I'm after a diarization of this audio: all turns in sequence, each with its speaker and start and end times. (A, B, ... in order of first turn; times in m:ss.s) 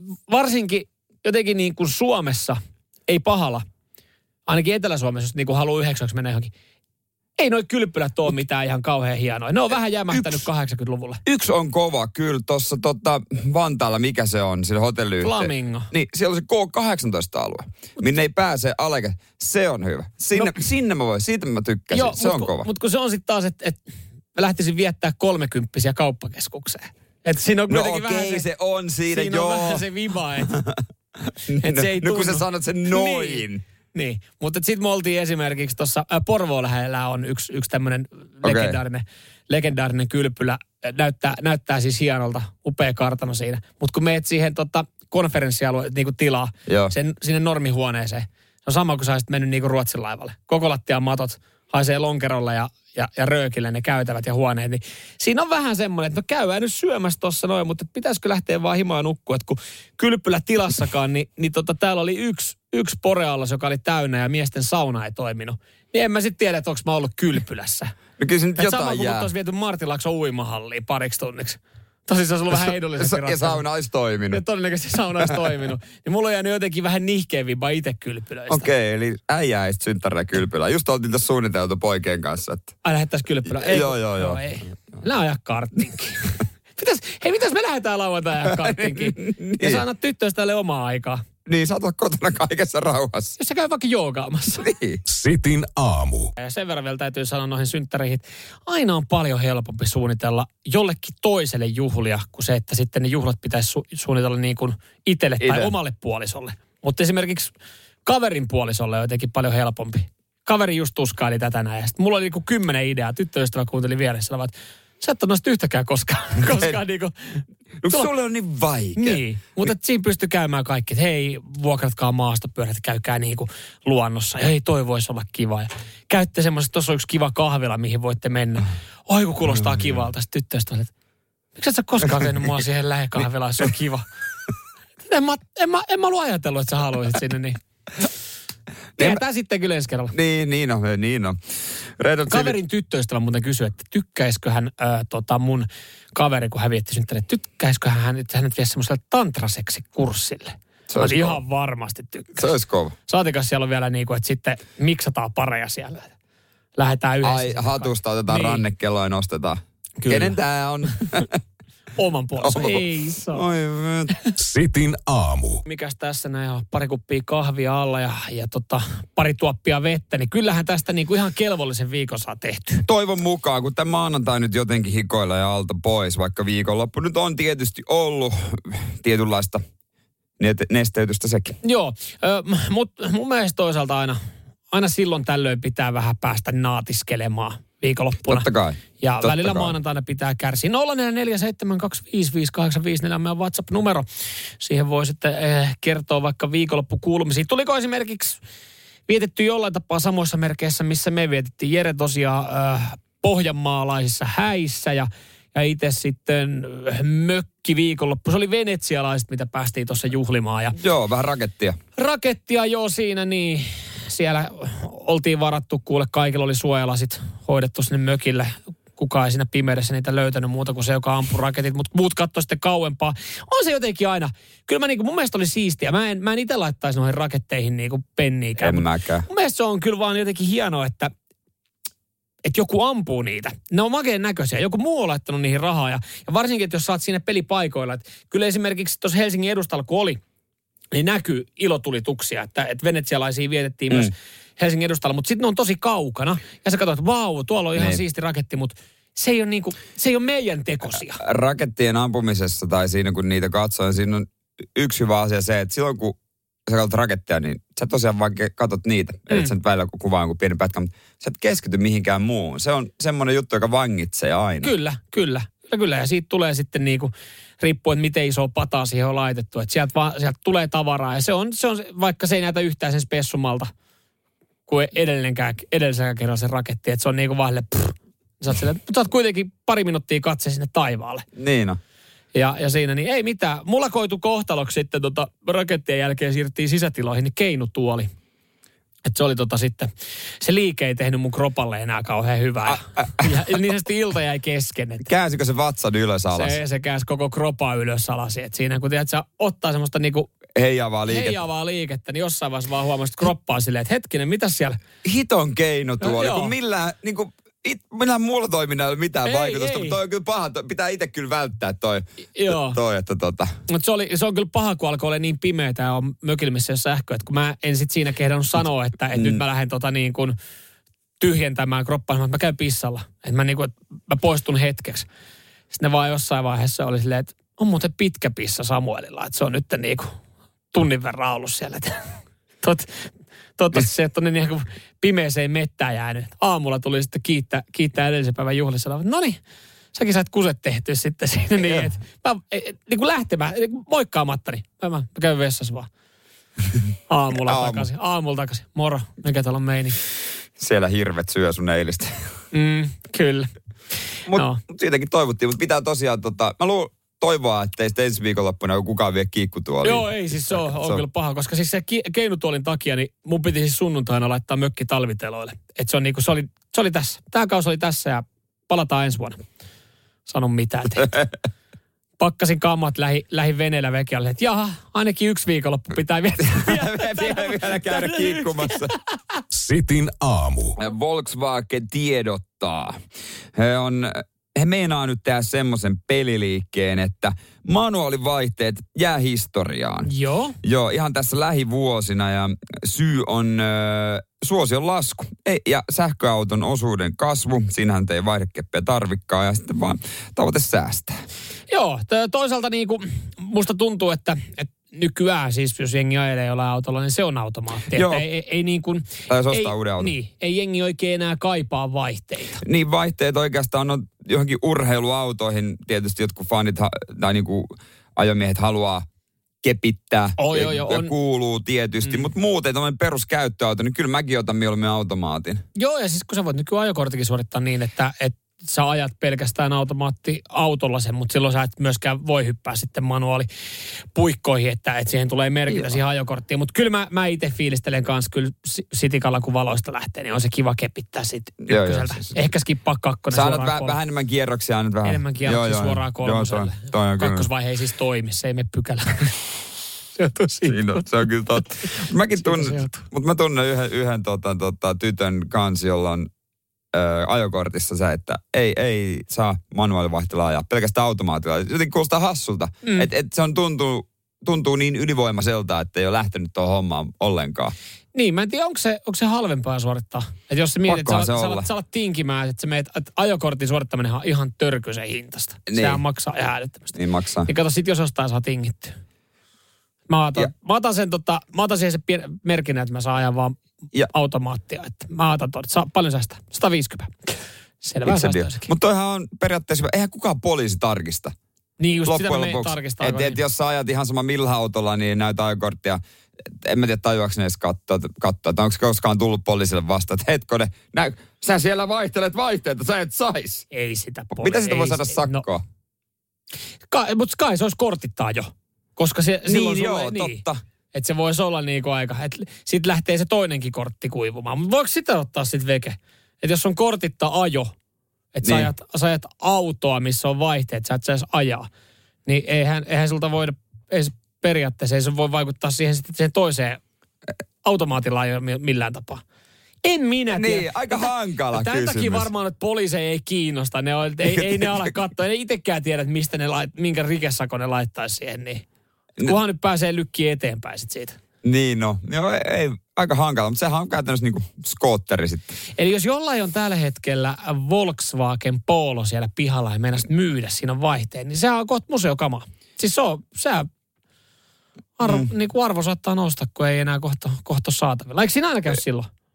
0:00.2-0:03.6 A
0:04.5-0:06.5 A
0:07.4-0:11.2 A
0:10.1-0:10.4 B
0:11.2-0:22.7 B
0:15.2-0:15.9 A
0:21.9-0:23.8 A
0:24.3-0:28.4 A
0:27.7-0:29.8 B
0:29.1-0:30.5 A
0:30.4-0:33.6 B
0:31.6-1:07.9 A
0:38.4-0:38.8 B
0:46.7-0:46.9 B
1:08.2-1:09.3 B
1:08.6-1:13.6 A
1:12.5-1:14.4 B
1:14.3-1:18.7 A
1:15.2-1:15.5 B
1:18.5-1:22.7 B
1:22.8-1:31.2 A
1:23.4-1:24.4 B
1:28.4-1:29.8 B
1:31.4-1:33.3 B
1:33.4-1:34.7 A
1:34.6-1:35.0 B
1:35.0-1:36.3 C
1:36.4-1:47.5 A
1:45.4-1:45.7 B
1:48.0-1:58.1 A
1:56.4-1:56.8 B
1:57.8-1:59.2 B
1:58.9-2:10.9 A
2:11.6-2:14.0 A
2:15.0-2:17.6 A
2:19.0-2:20.1 A
2:20.1-2:21.4 B
2:22.0-2:22.6 B
2:22.3-2:32.5 A
2:30.9-2:31.4 B
2:32.4-2:32.9 B
2:33.1-2:36.1 A
2:36.8-2:38.6 A
2:37.2-2:41.4 B
2:40.0-2:40.4 A
2:42.0-2:43.4 A
2:42.4-2:44.1 B
2:44.4-2:45.6 C
2:45.6-2:52.8 A
2:52.9-2:59.6 B
3:00.4-3:01.6 B
3:01.6-3:04.2 A
3:04.7-3:08.5 A
3:08.2-3:09.7 B
3:09.0-3:14.0 A
3:14.6-3:18.4 A
3:19.1-3:30.8 A
3:30.7-3:31.8 B
3:32.0-3:51.1 A
3:48.6-3:49.3 B
3:52.4-4:00.2 A
4:00.9-4:11.2 A
4:07.8-4:08.0 B
4:11.1-4:24.7 B
4:24.6-4:33.7 A
4:34.7-4:41.2 A
4:41.4-4:41.8 B
4:42.3-4:48.1 A
4:49.0-4:49.9 A
4:50.4-4:55.1 A
4:52.7-4:53.5 B
4:55.0-4:56.6 B
4:56.3-5:00.3 A
5:00.5-5:01.4 B
5:01.1-5:04.8 A
5:05.0-5:13.5 B
5:06.0-5:06.5 A
5:09.2-5:10.0 A
5:12.4-5:12.8 A
5:13.7-5:20.4 A
5:19.1-5:19.4 B
5:21.2-5:25.1 A
5:25.7-5:30.1 A
5:30.7-5:32.1 A
5:32.6-5:39.4 A
5:39.9-5:45.9 A
5:41.6-5:41.9 B
5:47.1-5:50.0 A
5:47.4-5:47.9 B
5:50.6-5:52.1 B
5:52.5-5:53.5 A
5:54.3-6:01.0 B
5:54.3-5:54.6 A
5:59.8-6:09.4 A
6:10.3-6:11.1 A
6:12.2-6:18.9 A
6:16.4-6:18.9 B
6:19.5-6:20.8 C
6:20.8-6:23.0 B
6:23.5-6:30.1 B
6:30.0-6:30.6 A
6:30.6-6:41.1 B
6:41.7-6:52.6 A
6:47.9-6:48.2 B
6:49.3-6:50.1 B
6:52.6-6:59.0 B
6:59.6-7:05.6 B
7:00.4-7:01.1 A
7:05.8-7:13.5 A
7:14.1-7:24.0 A
7:15.7-7:16.0 B
7:21.7-7:22.4 B
7:23.3-7:27.5 B
7:25.0-7:29.4 A
7:30.2-7:31.0 A
7:30.7-7:36.3 B
7:31.9-7:33.0 A
7:36.9-7:47.7 B
7:42.8-7:43.1 A
7:48.1-7:59.0 A
7:50.9-7:51.7 B
7:55.7-7:56.0 B
7:57.0-7:57.5 B
8:00.1-8:08.7 A
8:08.0-8:11.3 B
8:11.8-8:13.4 A
8:12.0-8:23.6 B
8:23.7-8:25.4 A
8:24.4-8:25.6 B
8:26.9-8:30.4 A
8:29.4-8:30.6 B
8:30.9-8:37.7 A
8:38.3-8:41.7 A
8:38.4-8:38.7 B
8:42.2-8:46.8 A
8:47.6-8:49.2 A
8:49.8-8:58.6 A
8:50.3-8:52.3 B
8:54.2-8:54.9 B
8:59.2-9:01.2 A
9:01.4-9:05.5 B
9:05.8-9:13.7 A
9:15.0-9:19.1 A
9:15.0-9:15.3 B